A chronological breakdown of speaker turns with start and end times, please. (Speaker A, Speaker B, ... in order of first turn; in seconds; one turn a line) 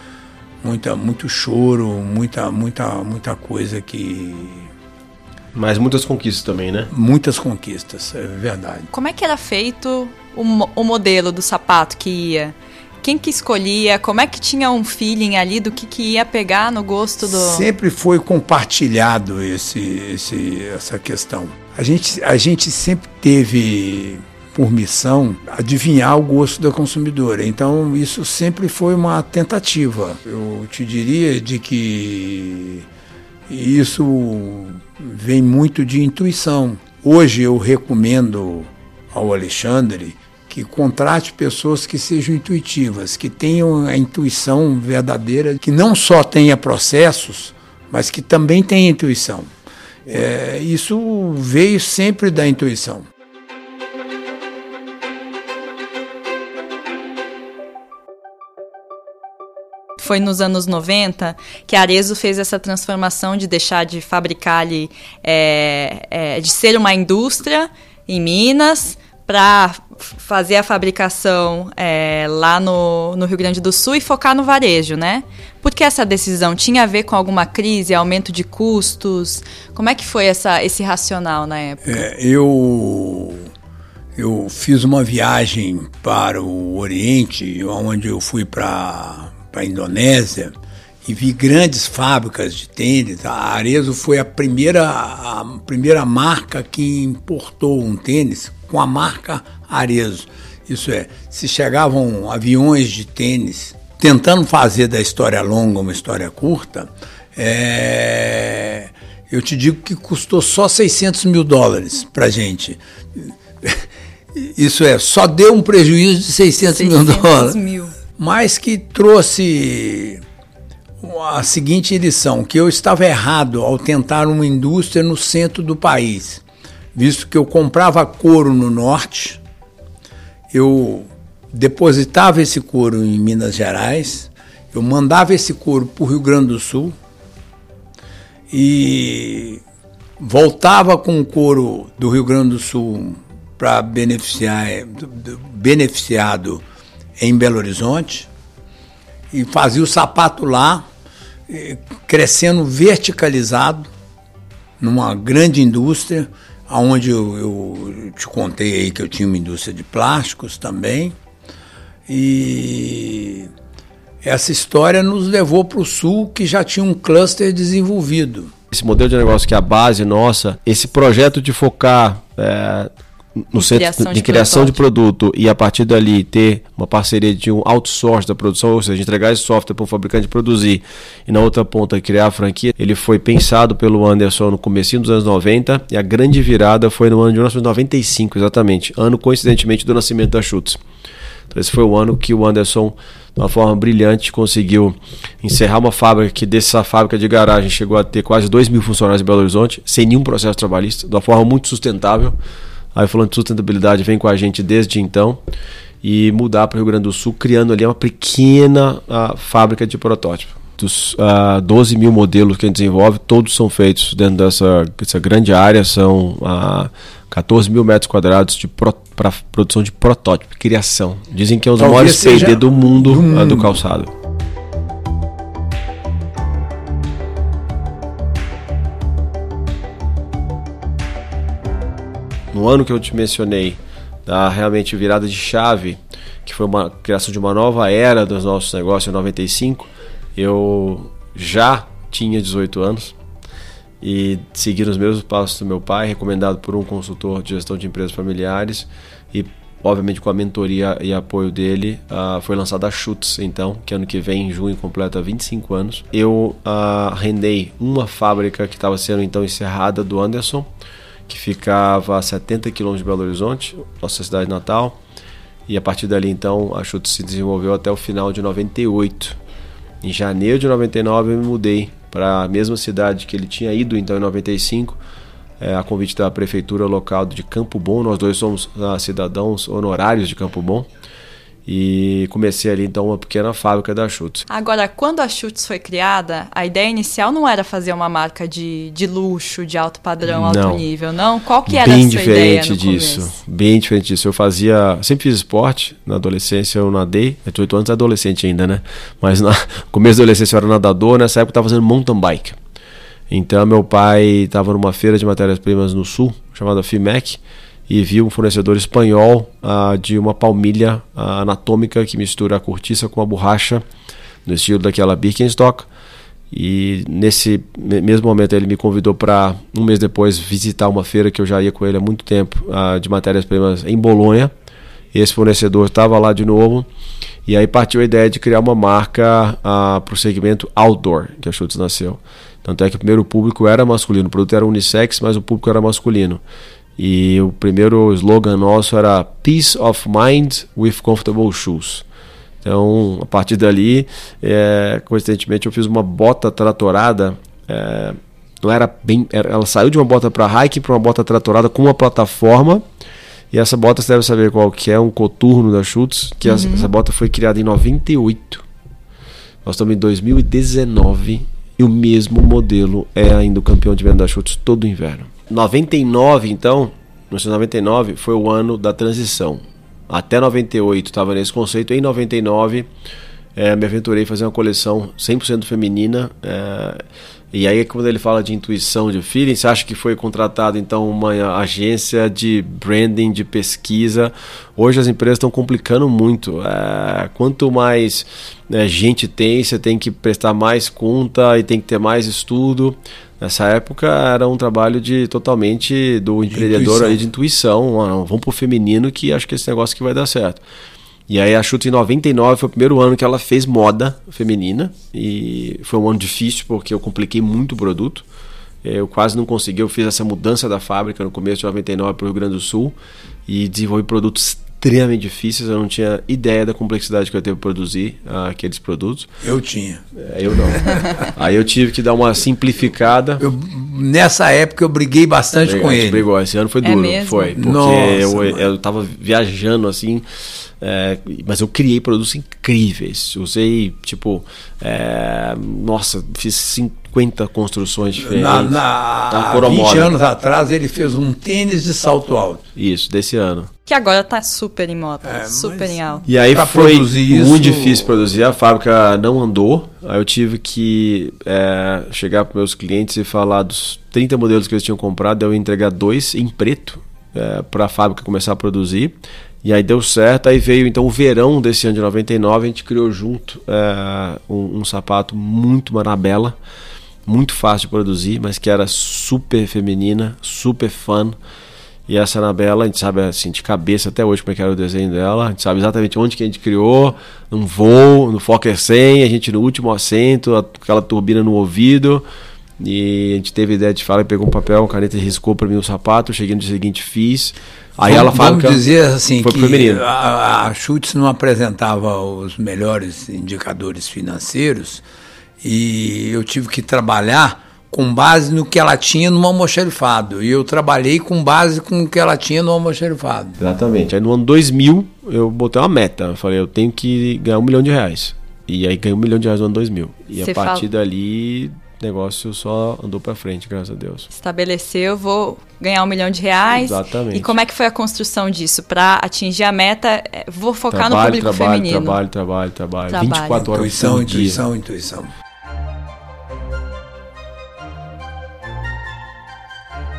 Speaker A: 0.6-4.7
Speaker B: 5.5-6.9
Speaker A: 6.9-8.9
Speaker C: 8.9-17.7
Speaker A: 17.2-32.9
Speaker A: 33.5-49.5
Speaker A: 50.0-53.1
Speaker C: 60.0-82.0
Speaker A: 81.8-83.5
Speaker A: 84.2-117.6
Speaker C: 116.6-118.0
Speaker A: 118.1-120.2
Speaker A: 121.0-126.4
Speaker A: 126.9-129.4
Speaker A: 130.5-136.9
Speaker A: 138.5-139.6
Speaker A: 140.2-146.6
Speaker A: 147.2-148.3
Speaker A: 149.3-150.8
Speaker A: 151.5-153.9
Speaker A: 154.8-161.1
Speaker A: 162.1-163.5
Speaker A: 164.2-168.5
Speaker B: 168.7-172.9
Speaker B: 173.5-190.8
Speaker C: 173.6-174.8
Speaker B: 191.5-202.3
Speaker B: 202.9-205.4
Speaker B: 206.0-224.1
Speaker A: 221.8-223.8
Speaker B: 232.5-243.1
Speaker B: 244.0-260.7
Speaker B: 261.3-264.9
Speaker B: 265.7-269.4
Speaker B: 270.0-275.0
Speaker B: 275.6-280.9
Speaker B: 281.6-284.4
Speaker C: 284.5-293.3
Speaker B: 290.2-290.9
Speaker B: 291.7-302.6
Speaker B: 303.3-313.8
Speaker B: 314.4-315.9
Speaker B: 316.5-324.5
Speaker B: 325.1-326.9
Speaker B: 327.4-336.4
Speaker B: 337.0-342.0
Speaker B: 342.6-352.8
Speaker B: 353.5-358.6
Speaker C: 356.4-356.9
Speaker B: 359.6-372.9
Speaker B: 373.6-400.6
Speaker A: 396.5-397.2
Speaker B: 401.3-408.2
Speaker B: 408.8-412.9
Speaker B: 413.5-419.3
Speaker A: 419.4-420.0
Speaker B: 420.2-423.4
Speaker A: 423.4-426.2
Speaker B: 425.6-430.2
Speaker C: 426.8-427.6
Speaker A: 427.6-428.6
Speaker B: 430.8-438.8
Speaker A: 438.2-442.6
Speaker B: 439.3-440.1
Speaker B: 442.8-443.7
Speaker C: 443.9-446.2
Speaker A: 445.2-448.2
Speaker B: 446.2-466.5
Speaker B: 467.2-471.4
Speaker B: 472.1-482.2
Speaker B: 482.8-488.8
Speaker A: 488.0-495.0
Speaker B: 489.4-490.0
Speaker A: 495.6-503.6
Speaker B: 503.6-514.3
Speaker C: 510.4-510.8
Speaker C: 514.3-522.2
Speaker B: 516.7-517.5
Speaker B: 520.9-524.6
Speaker C: 523.1-523.6
Speaker A: 523.6-525.3